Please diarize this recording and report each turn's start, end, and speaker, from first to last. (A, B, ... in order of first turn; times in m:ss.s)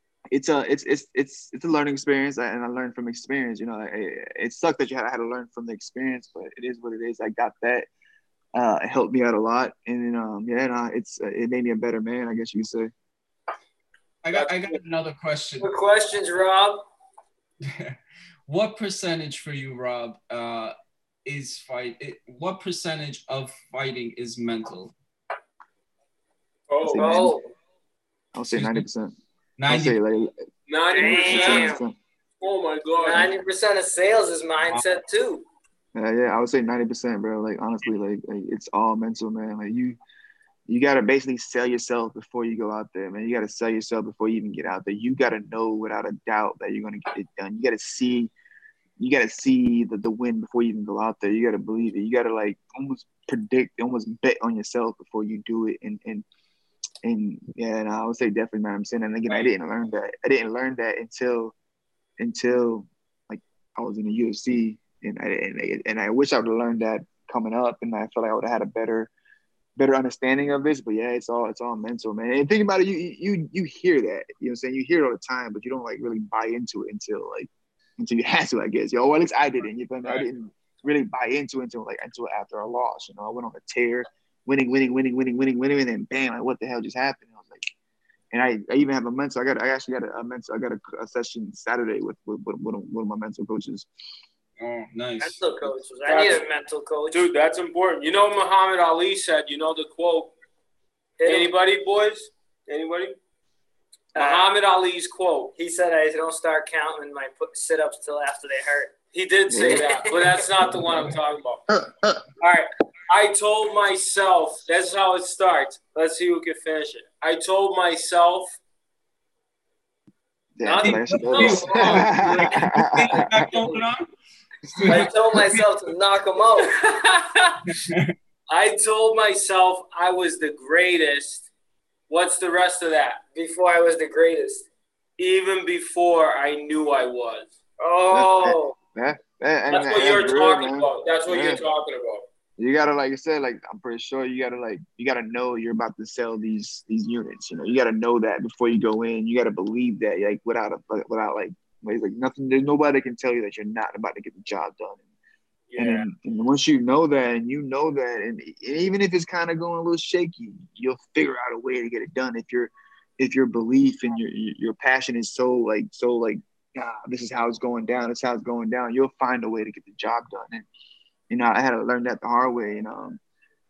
0:00.3-0:07.9 A
0:08.5-0:12.9 A
0:14.2-0:15.7 B
0:14.3-0:14.8 C
0:15.6-0:16.8 C
0:17.6-0:24.9 B
0:26.7-0:27.3 D
0:26.8-0:27.4 A
0:26.9-0:27.5 C
0:28.3-0:29.2 A
0:28.5-0:28.8 B
0:29.6-0:30.0 B
0:29.7-0:30.3 A
0:30.7-0:31.8 D
0:30.9-0:31.8 C
0:31.0-0:32.0 A
0:32.4-0:33.3 D
0:33.0-0:35.4 C
0:35.9-0:40.0 A
0:40.7-0:48.3 A
0:49.0-0:56.2 A
0:57.0-1:01.5 A
1:02.2-1:09.1 A
1:09.8-1:27.7 A
1:28.3-1:33.9 A
1:34.6-1:35.7 B
1:35.2-1:37.2 C
1:36.0-1:36.4 D
1:37.1-1:40.3 D
1:41.2-1:41.5 C
1:41.2-1:43.2 D
1:44.1-1:45.5 D
1:44.1-1:44.5 C
1:45.6-1:48.9 C
1:49.1-1:51.6 D
1:49.5-1:49.8 A
1:49.6-1:50.4 C
1:51.7-1:52.2 A
1:52.4-1:58.6 D
2:00.6-2:03.5 A
2:00.6-2:02.7 D
2:00.8-2:04.1 B
2:01.7-2:01.9 C
2:03.2-2:03.7 D
2:04.6-2:05.7 B
2:04.9-2:06.7 C
2:06.6-2:07.7 D
2:07.7-2:08.1 B
2:08.5-2:11.5 D
2:12.1-2:13.2 D
2:13.3-2:14.6 C
2:15.2-2:17.5 D
2:17.8-2:18.7 C
2:18.1-2:21.6 A
2:19.7-2:22.2 D
2:22.6-2:35.0 A
2:35.7-2:36.1 D
2:35.8-2:50.7 A
2:51.3-2:53.2 A